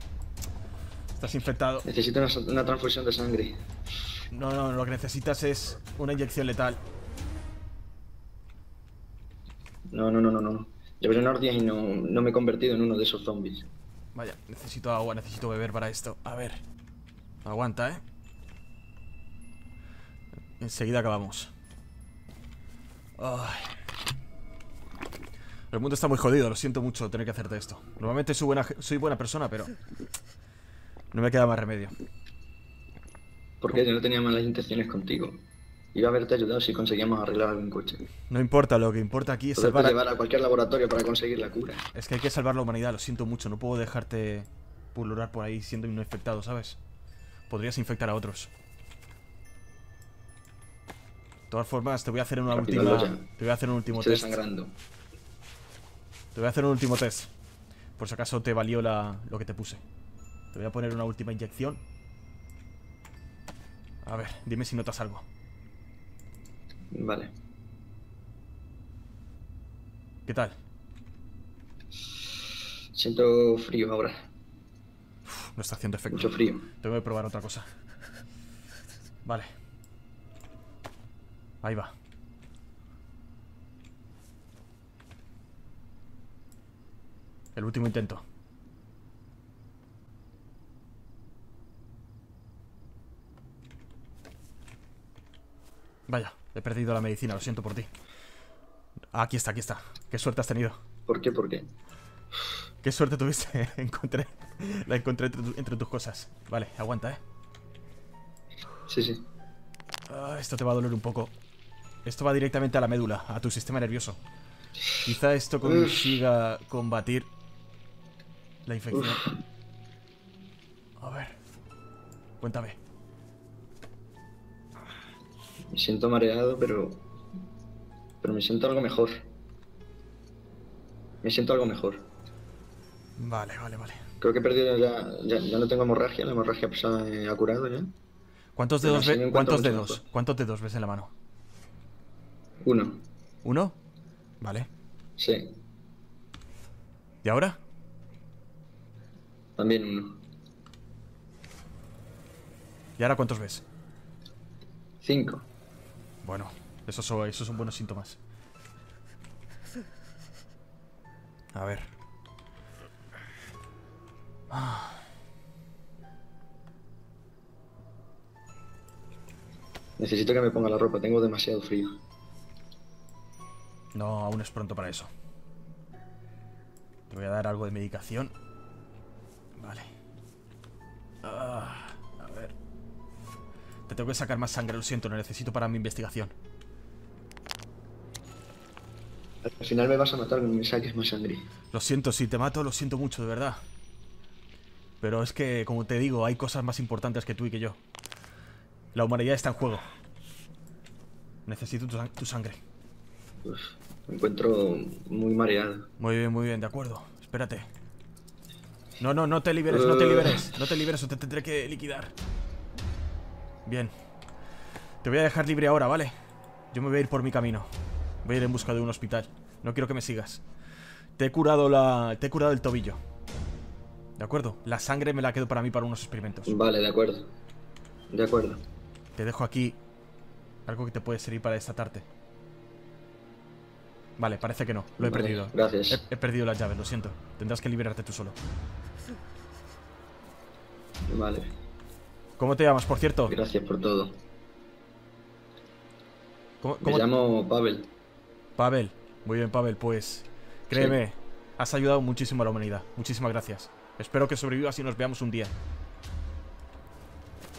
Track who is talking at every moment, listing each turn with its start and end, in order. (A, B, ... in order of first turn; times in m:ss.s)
0:01.1-0:01.8 A
0:01.8-0:03.6 B
0:04.3-0:06.8 A
0:09.9-0:13.7 B
0:14.1-0:16.6 A
0:17.4-0:18.0 A
0:20.6-0:21.5 A
0:23.2-0:23.8 A
0:25.7-0:29.7 A
0:31.1-0:31.9 A
0:33.6-0:38.0 B
0:38.3-0:40.0 A
0:39.6-0:41.8 B
0:41.9-0:46.8 A
0:47.5-0:48.5 A
0:51.5-0:54.4 A
0:52.5-0:53.2 B
0:53.9-0:54.8 B
0:56.3-0:57.3 A
0:58.0-0:59.8 A
1:00.5-1:01.8 A
1:04.0-1:05.2 A
1:06.9-1:07.3 B
1:10.3-1:10.5 A
1:12.9-1:14.3 B
1:15.3-1:17.6 A
1:16.1-1:16.7 B
1:21.6-1:21.9 A
1:27.5-1:28.2 A
1:36.1-1:37.9 A
1:39.1-1:40.8 A
1:41.1-1:41.7 B
1:42.8-1:47.2 A
1:48.9-1:49.2 B
1:50.1-1:51.3 A
1:52.0-1:54.2 A
1:55.0-1:57.3 A
1:55.6-1:56.0 B
1:58.6-1:59.2 A
1:58.9-1:59.3 B
2:01.0-2:01.3 A
2:02.4-2:02.8 A
2:05.7-2:07.0 B
2:08.2-2:09.3 B
2:11.2-2:12.1 B
2:13.2-2:14.0 A
2:14.2-2:17.9 B
2:18.6-2:21.1 A
2:18.8-2:20.0 B
2:22.6-2:23.0 B
2:23.4-2:23.8 A
2:24.4-2:24.7 A
2:25.2-2:25.6 B
2:27.2-2:27.6 A
2:29.6-2:30.2 B
2:33.0-2:33.6 A
2:35.0-2:35.5 B
2:36.2-2:38.2 A
2:41.5-2:41.9 A
2:44.5-2:45.0 A
2:50.0-2:52.0 B
2:53.9-2:55.1 A
2:57.1-2:58.3 A
2:59.6-2:59.8 A
3:01.2-3:02.5 A
3:03.9-3:06.3 A
3:09.4-3:11.5 B
3:11.7-3:13.6 A
3:15.0-3:17.8 A
3:18.9-3:19.8 A
3:21.4-3:22.6 A
3:23.4-3:25.9 B
3:26.0-3:27.7 A
3:29.0-3:32.1 A
3:29.7-3:30.5 B
3:33.6-3:33.9 A
3:35.0-3:36.1 A
3:36.7-3:37.7 A
3:38.2-3:40.4 A
3:41.2-3:43.0 A
3:44.2-3:46.5 A
3:46.4-3:47.3 B
3:48.1-3:48.6 B
3:49.2-3:49.8 A
3:50.6-3:52.1 A
3:54.2-3:58.4 A
3:55.0-3:56.0 B
4:01.1-4:01.5 B
4:02.4-4:03.4 A
4:03.3-4:04.2 B
4:06.6-4:07.1 A
4:06.8-4:07.9 B
4:08.6-4:15.5 A
4:10.7-4:11.0 B